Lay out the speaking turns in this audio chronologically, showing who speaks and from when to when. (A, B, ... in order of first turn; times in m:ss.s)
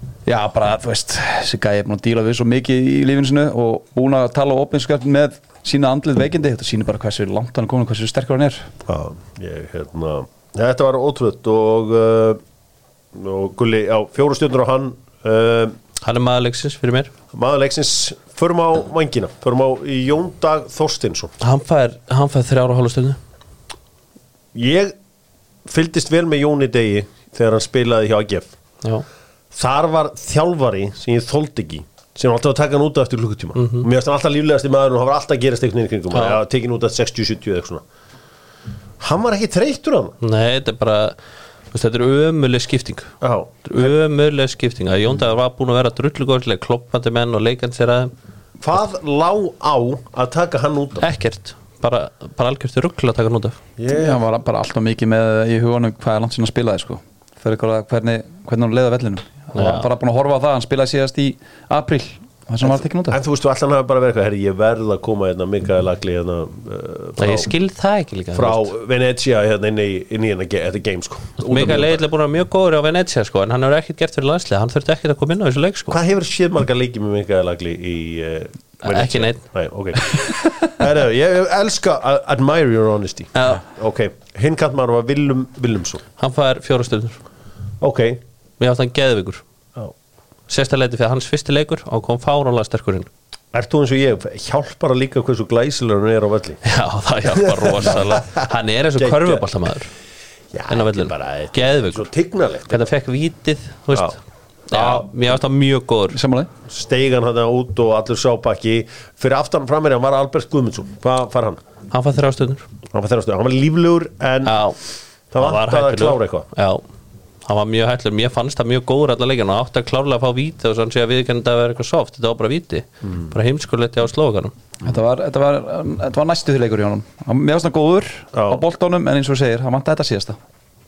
0:00.2-0:08.7 A
0:08.9-0:12.4 B
0:13.1-0:15.8 B
0:16.0-0:17.1 C
0:17.3-0:21.4 B
0:21.4-0:23.2 C
0:24.5-0:24.9 B
0:25.6-0:28.5 B
0:29.5-0:37.8 B
0:33.6-0:33.9 C
0:36.1-0:36.4 C
0:39.0-0:40.2 B
0:40.2-0:41.1 C
0:41.7-0:43.1 C
0:43.2-0:43.9 B
0:43.6-0:48.1 C
0:48.6-0:51.0 B
0:51.0-0:53.6 C
0:53.8-0:54.2 B
0:53.9-1:03.2 A
0:59.5-0:59.9 C
1:02.6-1:07.5 B
1:07.2-1:08.7 C
1:08.3-1:12.0 B
1:11.4-1:16.0 C
1:15.9-1:26.0 B
1:18.8-1:19.4 C
1:23.4-1:23.6 C
1:26.2-1:27.2 C
1:27.8-1:28.2 B
1:28.6-1:29.4 C
1:30.5-1:33.1 C
1:33.5-1:36.6 B
1:36.6-1:39.9 C
1:37.2-1:39.4 B
1:40.5-1:42.9 B
1:40.7-1:42.1 C
1:42.7-1:44.2 C
1:44.7-1:45.1 B
1:44.7-1:46.2 C
1:46.1-1:46.5 A
1:46.6-1:51.6 B
1:51.9-1:52.6 C
1:52.9-1:54.6 B
1:54.4-1:54.8 C
1:55.3-1:56.5 B
1:55.4-1:56.8 C
1:57.4-2:04.5 C
2:04.8-2:10.4 A
2:08.3-2:08.6 B